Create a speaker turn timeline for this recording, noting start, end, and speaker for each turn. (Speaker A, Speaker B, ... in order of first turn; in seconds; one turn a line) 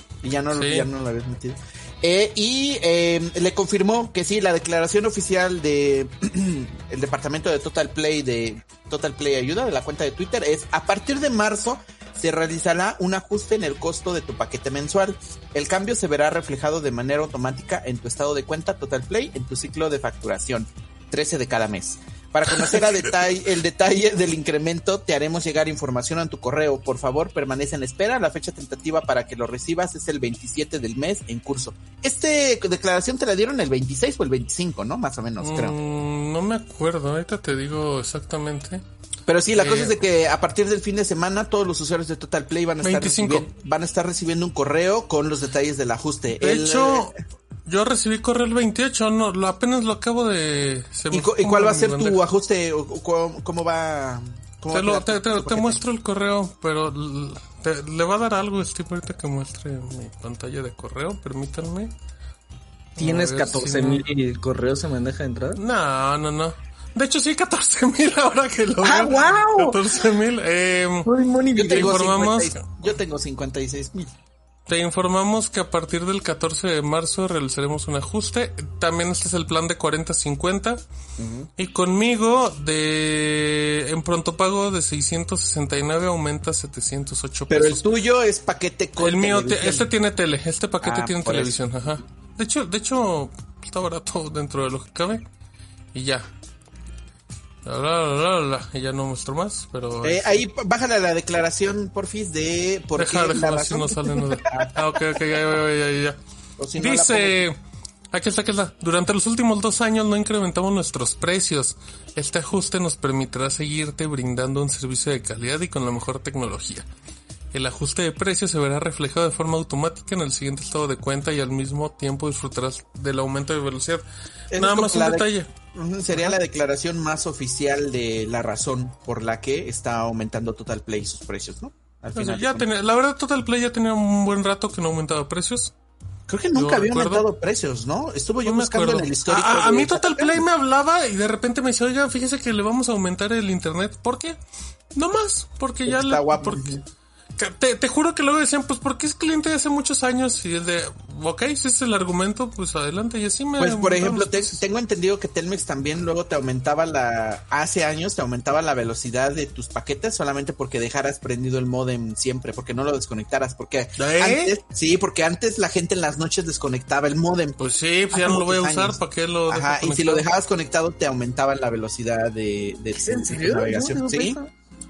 Speaker A: 0.2-35.8
Speaker B: 0.5-0.9
Speaker B: 35.4-38.8
Speaker A: 39.3-47.1
Speaker B: 39.5-40.0
Speaker B: 42.8-43.5
Speaker B: 46.4-47.1
Speaker B: 47.7-52.2
Speaker A: 51.1-55.8
Speaker B: 54.7-61.9
Speaker B: 63.0-64.1
Speaker C: 63.0-65.6
Speaker B: 65.6-71.1
Speaker C: 68.8-69.8
Speaker C: 71.0-72.1
Speaker A: 71.6-74.1
Speaker B: 71.7-72.6
Speaker B: 74.7-80.8
Speaker A: 81.2-81.5
Speaker B: 81.6-87.9
Speaker A: 87.5-89.9
Speaker B: 89.0-95.2
Speaker A: 90.8-91.6
Speaker B: 95.9-96.3
Speaker B: 97.7-100.4
Speaker A: 100.0-104.8
Speaker B: 103.0-106.2
Speaker A: 106.6-107.4
Speaker B: 106.8-107.6
Speaker B: 108.1-116.9
Speaker B: 117.5-125.5
Speaker A: 124.5-132.7
Speaker B: 132.2-135.7
Speaker A: 136.3-140.4
Speaker B: 136.5-137.3
Speaker B: 138.4-144.4
Speaker B: 144.9-146.8
Speaker A: 145.8-146.8
Speaker B: 147.4-154.6
Speaker A: 153.6-167.6
Speaker B: 164.0-164.6
Speaker B: 167.6-170.3
Speaker A: 168.1-174.4
Speaker C: 172.9-174.5